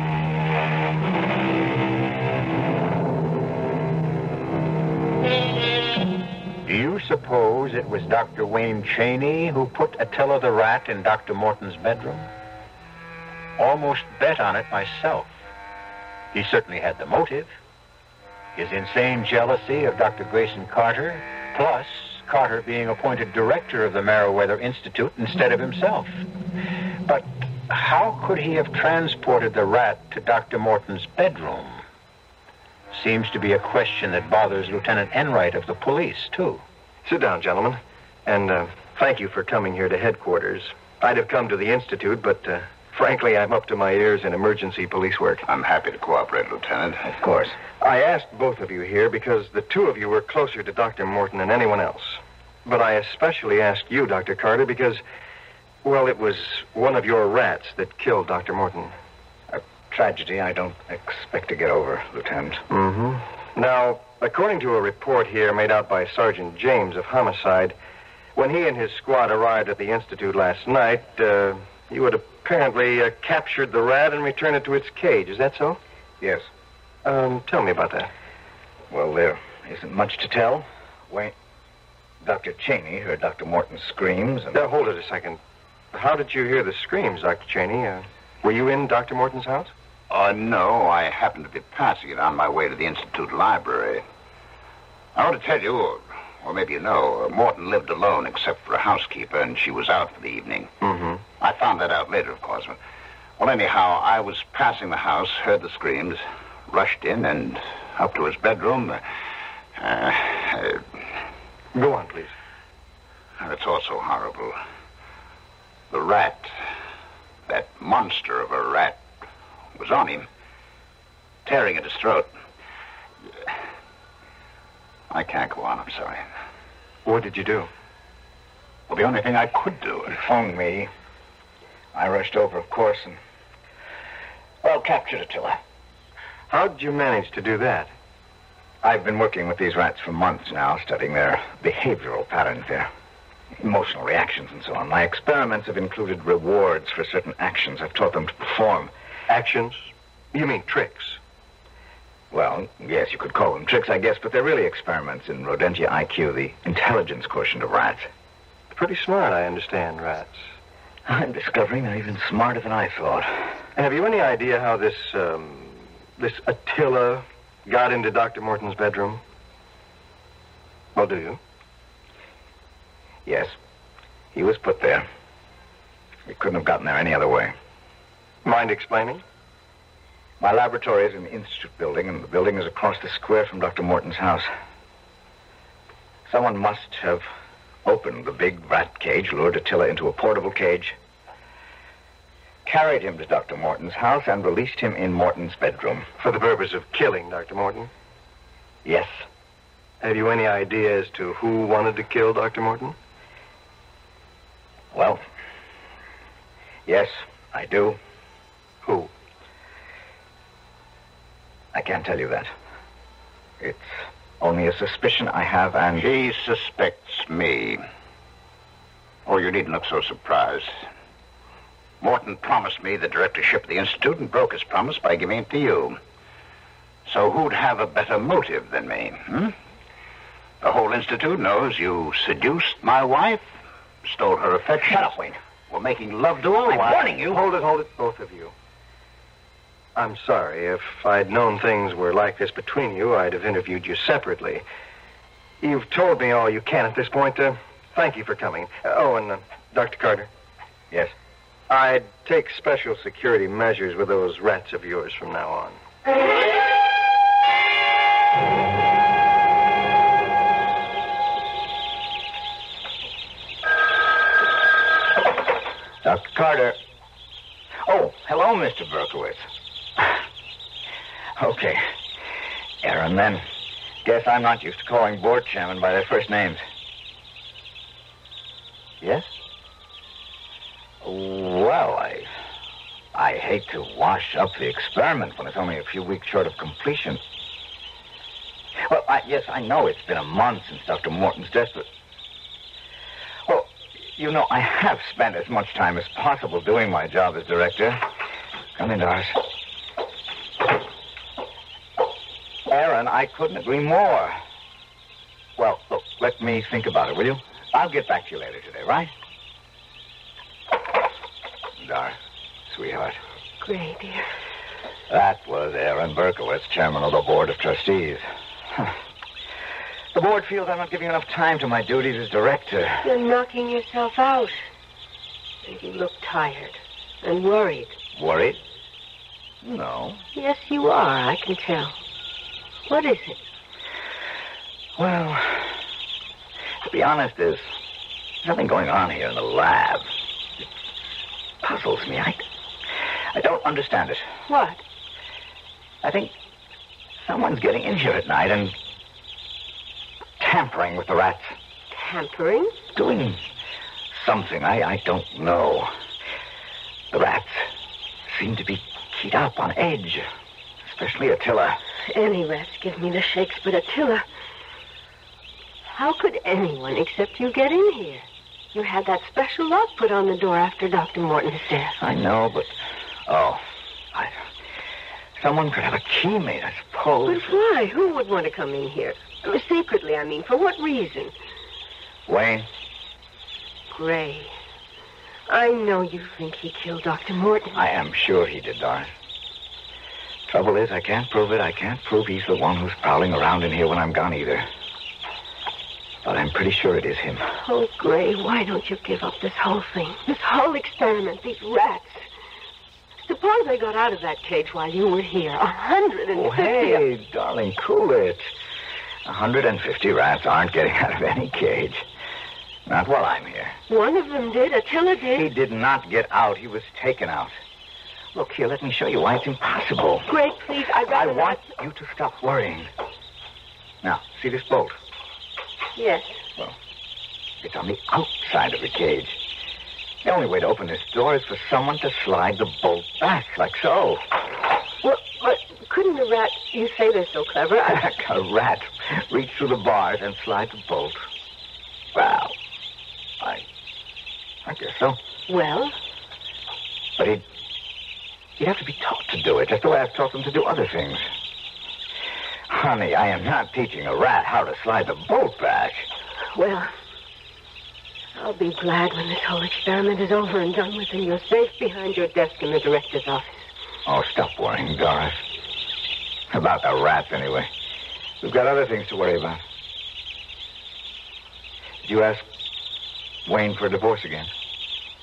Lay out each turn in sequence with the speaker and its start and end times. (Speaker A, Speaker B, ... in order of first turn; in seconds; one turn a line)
Speaker A: 6.7-12.3
Speaker A: 13.6-15.3
Speaker A: 16.3-17.5
Speaker A: 18.6-26.2
Speaker A: 27.1-31.8
Speaker A: 32.9-36.6
Speaker B: 37.0-45.4
Speaker C: 45.5-47.1
Speaker D: 47.0-47.6
Speaker B: 47.8-55.0
Speaker B: 55.8-58.9
Speaker D: 59.5-62.6
Speaker B: 62.7-67.8
Speaker B: 68.3-75.8
Speaker D: 76.2-76.5
Speaker B: 77.0-78.1
Speaker D: 78.9-81.4
Speaker D: 82.2-84.6
Speaker B: 84.5-85.4
Speaker B: 85.9-89.7
Speaker C: 90.1-94.0
Speaker C: 95.2-100.7
Speaker B: 100.8-101.2
Speaker C: 101.4-102.8
Speaker C: 103.4-109.0
Speaker C: 109.8-110.9
Speaker B: 111.7-112.3
Speaker C: 113.4-114.6
Speaker C: 115.9-116.5
Speaker C: 117.5-119.0
Speaker C: 119.8-120.3
Speaker C: 121.5-122.3
Speaker C: 125.1-126.2
Speaker B: 127.0-127.7
Speaker C: 128.9-130.2
Speaker D: 130.1-130.9
Speaker D: 131.9-133.2
Speaker D: 134.6-135.6
Speaker B: 136.5-137.9
Speaker D: 138.8-142.9
Speaker D: 143.6-148.9
Speaker B: 149.3-151.2
Speaker D: 152.3-158.1
Speaker B: 158.7-160.4
Speaker D: 161.1-163.5
Speaker B: 163.8-169.2
Speaker B: 170.9-171.4
Speaker D: 173.2-173.5
Speaker D: 174.3-175.1
Speaker D: 176.3-177.6
Speaker B: 178.4-179.2
Speaker D: 180.4-184.5
Speaker D: 186.3-187.3
Speaker D: 187.8-191.0
Speaker D: 192.7-196.1
Speaker B: 196.2-197.9
Speaker D: 198.8-199.2
Speaker B: 200.0-203.0
Speaker D: 204.9-205.2
Speaker D: 206.9-208.0
Speaker B: 208.8-209.1
Speaker D: 211.7-212.5
Speaker D: 213.6-216.1
Speaker C: 216.0-217.8
Speaker C: 219.3-220.8
Speaker C: 222.0-226.0
Speaker C: 227.1-229.6
Speaker C: 230.6-233.4
Speaker C: 234.0-235.2
Speaker D: 234.9-235.4
Speaker C: 235.7-237.1
Speaker D: 236.7-237.4
Speaker B: 236.9-238.5
Speaker B: 240.0-244.6
Speaker B: 245.6-250.3
Speaker B: 251.7-255.8
Speaker D: 266.0-266.8
Speaker D: 267.9-269.4
Speaker D: 271.4-271.9
Speaker D: 272.8-273.4
Speaker D: 274.0-276.6
Speaker D: 279.0-279.3
Speaker D: 281.0-282.4
Speaker D: 283.1-287.2
Speaker D: 288.8-291.9
Speaker D: 293.5-298.1
Speaker D: 298.8-299.4
Speaker D: 302.7-304.4
Speaker D: 305.6-309.1
Speaker D: 311.8-312.2
Speaker D: 312.7-313.2
Speaker E: 313.6-314.3
Speaker D: 315.1-318.9
Speaker D: 320.1-323.1
Speaker E: 323.0-324.7
Speaker E: 325.6-327.9
Speaker D: 328.1-328.6
Speaker D: 329.6-330.2
Speaker E: 330.4-332.0
Speaker E: 332.9-333.4
Speaker D: 335.0-335.8
Speaker D: 336.8-337.6
Speaker D: 338.4-340.1
Speaker D: 341.6-342.4
Speaker D: 343.3-344.3
Speaker E: 344.5-344.8
Speaker D: 346.0-346.3
Speaker D: 347.2-348.8
Speaker D: 350.4-351.6
Speaker E: 351.9-352.8
Speaker D: 352.9-353.4
Speaker D: 354.1-355.9
Speaker D: 357.1-357.7
Speaker D: 358.3-360.3
Speaker D: 360.8-361.8
Speaker E: 362.1-364.2
Speaker E: 365.9-372.0
Speaker D: 372.0-374.4
Speaker D: 375.4-377.5
Speaker E: 377.3-381.3
Speaker D: 382.3-382.7
Speaker E: 383.9-384.6
Speaker E: 385.5-387.8
Speaker D: 387.8-389.1
Speaker D: 390.5-394.7
Speaker D: 396.2-397.5
Speaker E: 397.6-402.3
Speaker E: 403.2-407.0
Speaker D: 406.3-408.5
Speaker D: 409.2-412.1
Speaker D: 412.9-413.8
Speaker E: 413.9-415.5
Speaker D: 415.4-417.6
Speaker D: 418.3-420.3
Speaker E: 420.3-421.6
Speaker D: 421.1-422.9
Speaker D: 424.0-424.9
Speaker E: 426.0-426.4
Speaker D: 427.6-429.4
Speaker D: 430.2-434.2
Speaker E: 435.0-438.1
Speaker D: 437.9-441.3
Speaker D: 442.1-442.6
Speaker D: 443.4-443.6
Speaker D: 444.6-445.2
Speaker E: 445.5-446.0
Speaker D: 447.2-447.4
Speaker D: 448.6-451.2
Speaker D: 452.7-456.1
Speaker E: 456.5-456.9
Speaker E: 458.3-463.7
Speaker D: 464.1-465.4
Speaker D: 466.5-467.7
Speaker D: 468.4-469.6
Speaker D: 472.0-472.4
Speaker D: 473.5-474.5